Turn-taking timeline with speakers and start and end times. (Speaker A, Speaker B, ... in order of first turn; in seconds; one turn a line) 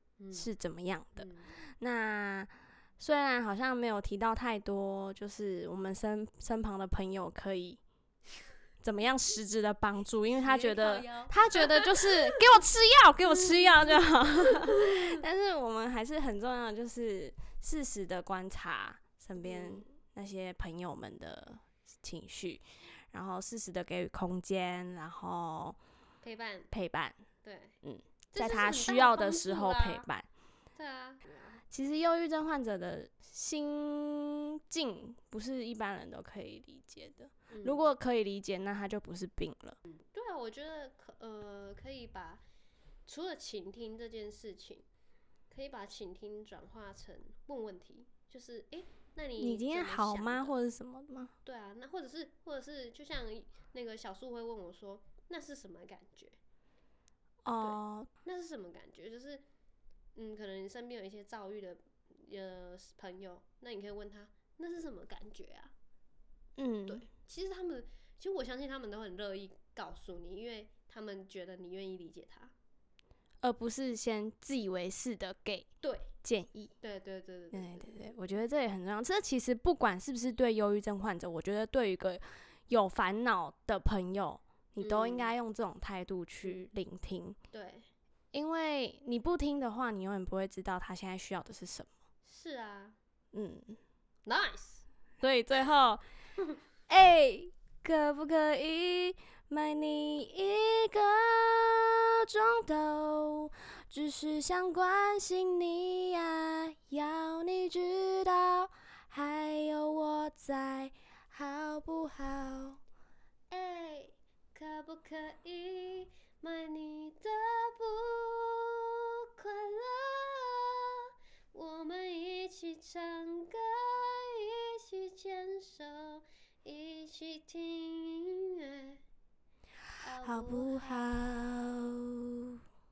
Speaker A: 0.2-0.5
Speaker B: 0.3-7.8
Speaker A: 1.2-1.5
Speaker B: 8.8-25.8
Speaker A: 10.3-12.5
Speaker A: 14.4-14.9
Speaker A: 19.4-19.9
Speaker A: 26.2-26.7
Speaker B: 26.7-27.2
Speaker A: 27.4-27.8
Speaker B: 27.8-30.3
Speaker A: 28.3-30.1
Speaker A: 30.8-31.6
Speaker B: 31.7-39.8
Speaker A: 37.5-37.9
Speaker A: 39.9-42.4
Speaker A: 43.0-44.8
Speaker A: 45.5-50.5
Speaker B: 49.4-51.3
Speaker A: 51.4-56.4
Speaker B: 57.4-58.1
Speaker A: 57.6-59.4
Speaker A: 60.1-65.7
Speaker B: 66.5-67.0
Speaker A: 66.8-72.5
Speaker B: 73.4-75.7
Speaker A: 75.8-76.1
Speaker B: 76.2-76.7
Speaker A: 76.8-78.4
Speaker B: 77.5-87.4
Speaker A: 84.8-85.3
Speaker A: 87.5-87.9
Speaker B: 88.3-91.9
Speaker A: 92.2-93.0
Speaker B: 93.3-93.8
Speaker A: 94.2-94.8
Speaker B: 95.2-96.0
Speaker B: 96.9-112.8
Speaker A: 113.5-120.9
Speaker A: 121.5-129.0
Speaker A: 130.0-131.2
Speaker B: 130.2-132.6